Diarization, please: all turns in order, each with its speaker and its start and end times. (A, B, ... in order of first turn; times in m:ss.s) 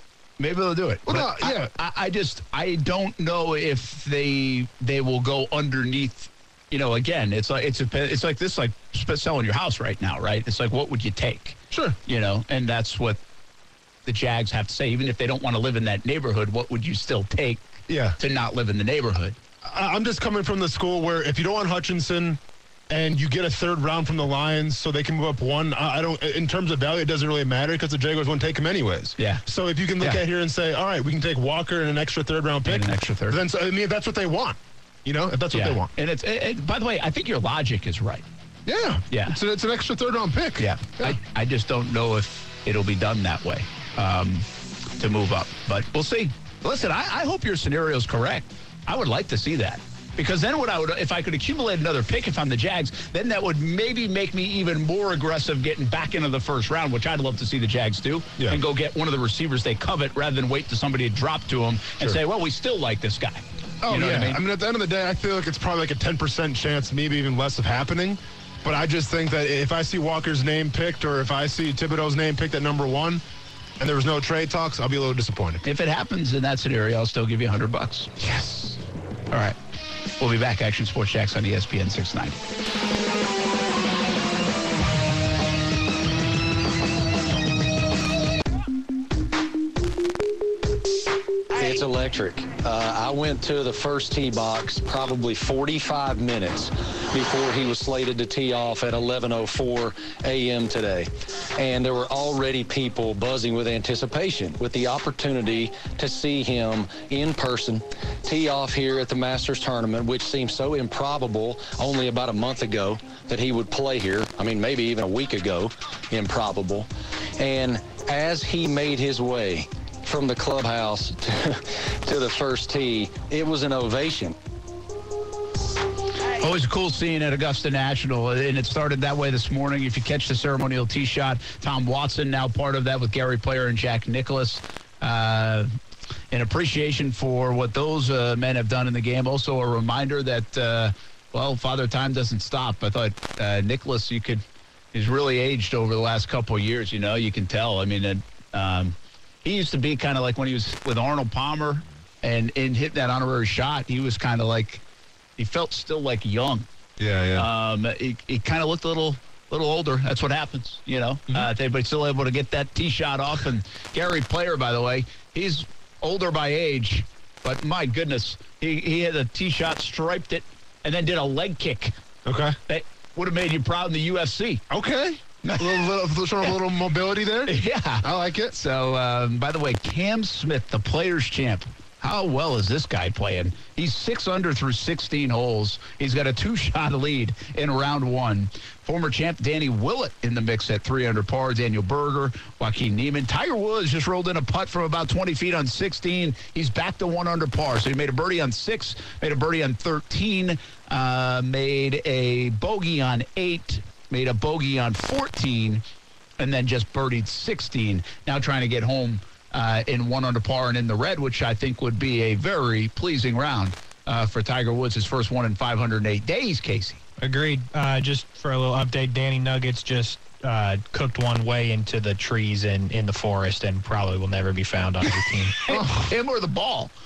0:00.4-0:13.2 A
0:01.0-0:01.7 B
0:11.7-0:12.0 B
0:14.0-0:19.4 A
0:17.9-0:18.2 B
0:19.6-0:35.9 B
0:29.2-0:29.4 A
0:32.6-0:33.4 A
0:35.5-0:38.2 A
0:38.6-0:41.2 B
0:39.1-0:39.4 A
0:40.6-1:04.4 A
1:03.8-1:13.2 B
1:13.8-1:15.6 B
1:15.6-1:18.8 A
1:19.3-1:19.6 A
1:20.2-1:22.4 A
1:31.5-2:04.3 C
2:06.2-2:15.7 A
2:16.3-2:34.8 A
2:35.4-2:36.6 A
2:37.0-2:37.5 B
2:37.4-2:51.9 A
2:52.2-2:52.6 B
2:52.7-2:54.6 A
2:54.7-2:58.5 B
2:55.4-2:55.7 A
2:57.4-3:25.8 A
3:26.4-3:37.0 A
3:37.2-3:45.6 D
3:45.6-3:46.9 A
3:45.7-3:46.1 B